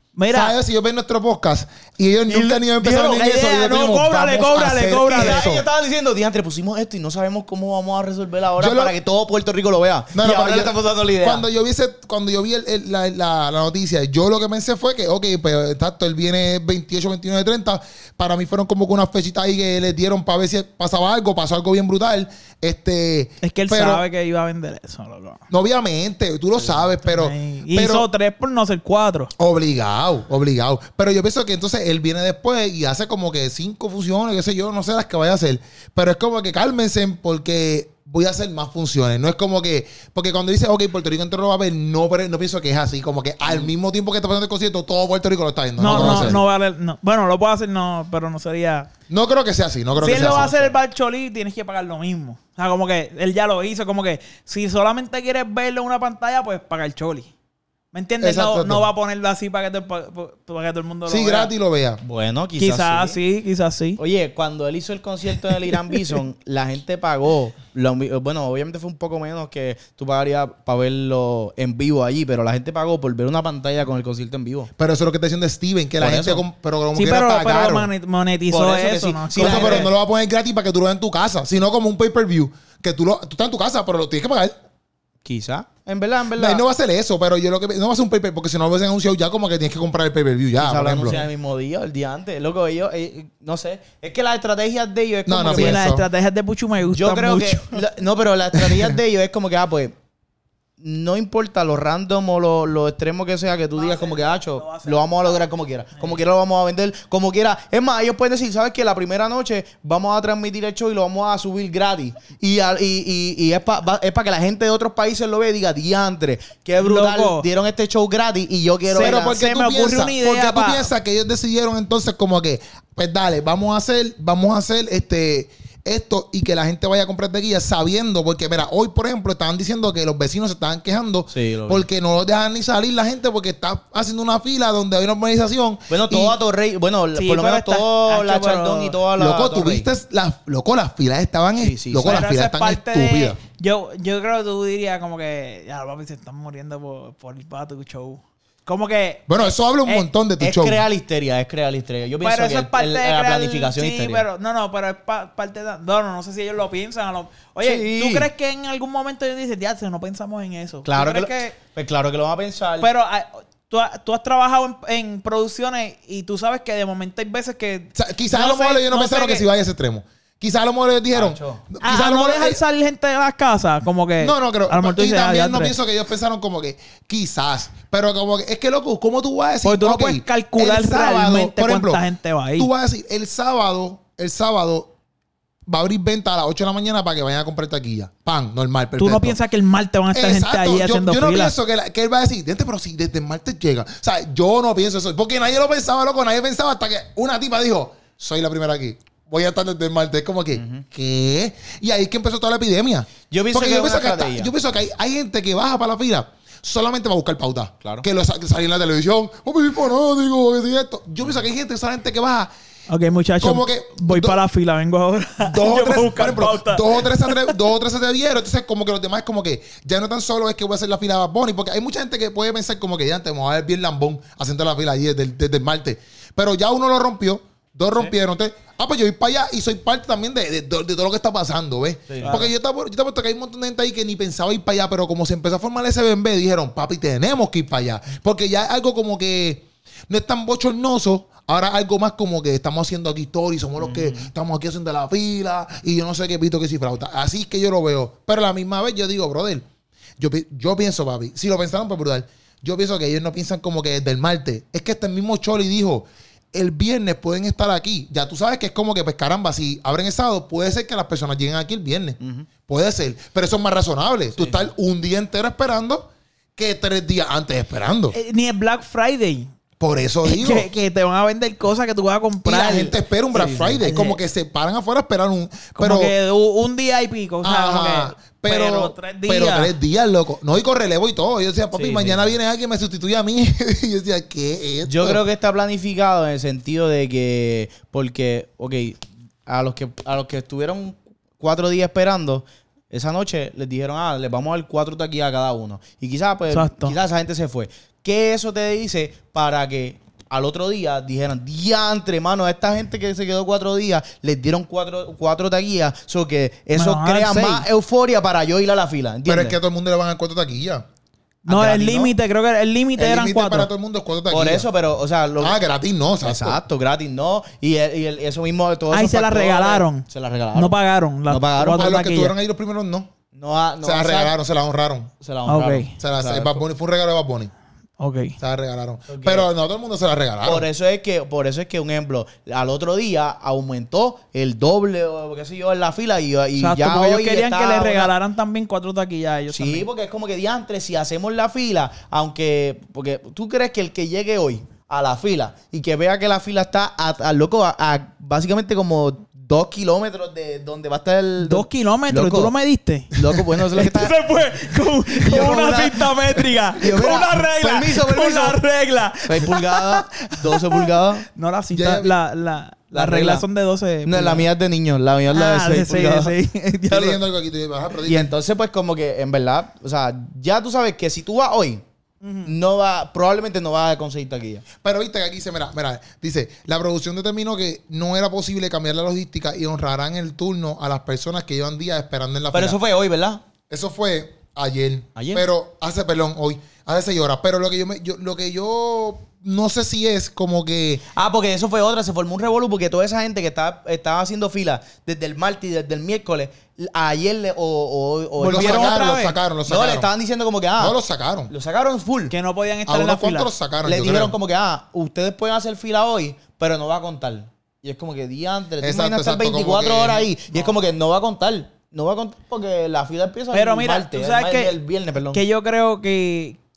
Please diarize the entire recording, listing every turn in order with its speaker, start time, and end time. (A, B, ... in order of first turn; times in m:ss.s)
0:00.1-0:00.5 A
0:00.3-0:05.7 B
0:02.3-0:03.3 C
0:02.8-0:05.4 A
0:05.1-0:11.4 C
0:08.6-0:08.9 B
0:10.1-0:24.0 B
0:23.4-0:25.4 A
0:25.5-0:28.1 B
0:27.0-0:29.3 A
0:29.4-0:46.4 B
0:45.8-0:48.9 A
0:45.8-0:46.4 C
0:49.1-0:50.5 B
0:50.0-0:57.3 A
0:50.0-0:50.7 C
0:57.9-1:01.5 A
0:58.2-0:58.9 B
1:01.1-1:02.0 B
1:02.0-1:03.2 C
1:02.6-1:04.0 A
1:04.0-1:14.7 C
1:14.8-1:17.9 B
1:16.0-1:16.4 C
1:16.9-1:19.9 A
1:18.5-1:19.9 C
1:19.4-1:24.5 B
1:25.2-1:26.6 C
1:26.4-1:31.2 B
1:30.6-1:35.8 C
1:35.3-1:36.0 B
1:35.5-1:37.8 A
1:36.8-1:39.9 C
1:40.8-1:59.3 C
1:43.7-1:45.5 A
1:56.8-1:57.4 A
1:58.9-2:00.9 A
1:58.9-2:16.4 B
2:11.3-2:11.8 C
2:15.9-2:19.9 C
2:17.2-2:19.0 A
2:19.2-2:23.4 B
2:21.6-2:22.2 C
2:22.0-2:30.0 A
2:29.3-2:30.8 B
2:30.4-2:34.2 C
2:32.2-2:41.6 A
2:37.6-2:38.3 C
2:40.8-2:42.9 C
2:42.8-2:49.4 A
2:47.9-2:52.6 B
2:51.1-2:51.6 C
2:51.8-2:55.8 A
2:54.2-3:02.0 B
2:59.6-3:02.7 A
3:02.6-3:04.9 B
3:05.6-3:09.4 B
3:09.0-3:11.5 A
3:10.1-3:32.5 B
3:20.5-3:20.8 C
3:23.3-3:24.5 C
3:32.9-3:37.6 A
3:33.4-3:34.4 B
3:35.4-4:09.6 B
3:52.1-3:52.4 C
3:52.2-3:52.5 A
4:03.8-4:04.3 C
4:10.2-4:28.1 B
4:22.2-4:22.5 C
4:24.4-4:24.6 C
4:28.1-4:29.5 A
4:29.8-4:30.7 B
4:30.2-4:34.2 A
4:32.4-4:36.1 B
4:33.3-4:33.8 C
4:35.8-4:39.7 A
4:37.4-4:45.2 B
4:41.7-4:42.3 C
4:44.8-5:09.6 C
4:56.5-4:57.0 A
5:06.7-5:07.6 A
5:09.2-5:10.8 B
5:11.4-5:13.7 A
5:11.5-5:12.1 C
5:13.0-5:14.7 B
5:14.3-5:15.6 C
5:15.4-5:16.6 B
5:16.2-5:20.8 C
5:18.9-5:22.3 A
5:21.3-5:21.9 C
5:21.7-5:23.1 B
5:23.3-5:24.3 C
5:23.8-5:25.1 B
5:25.2-5:26.6 C
5:25.4-5:25.9 A
5:26.0-5:27.5 B
5:28.0-5:28.4 A
5:28.4-5:30.7 B
5:29.1-5:29.5 C
5:30.4-5:38.1 C
5:36.6-5:39.8 A
5:39.5-5:52.5 C
5:51.4-5:53.2 A
5:53.1-5:54.2 C
5:53.7-6:04.4 A
5:55.1-5:58.6 C
5:59.2-6:01.3 C
6:01.7-6:02.1 B
6:02.9-6:03.4 C
6:04.0-6:06.4 C
6:05.3-6:07.2 A
6:06.9-6:08.3 B
6:08.0-6:11.8 C
6:12.2-6:12.5 A
6:12.4-6:14.6 C
6:14.8-6:22.8 B
6:22.5-6:23.4 C
6:23.7-6:31.0 B
6:25.2-6:25.4 C
6:31.1-6:40.9 C
6:38.4-6:39.4 A
6:38.4-6:40.1 B
6:40.8-6:41.5 B
6:41.5-6:42.3 C
6:42.3-6:43.5 A
6:42.9-6:44.3 B
6:43.8-6:55.4 C
6:48.8-6:50.2 B
6:53.5-6:54.7 A
6:55.3-6:56.6 A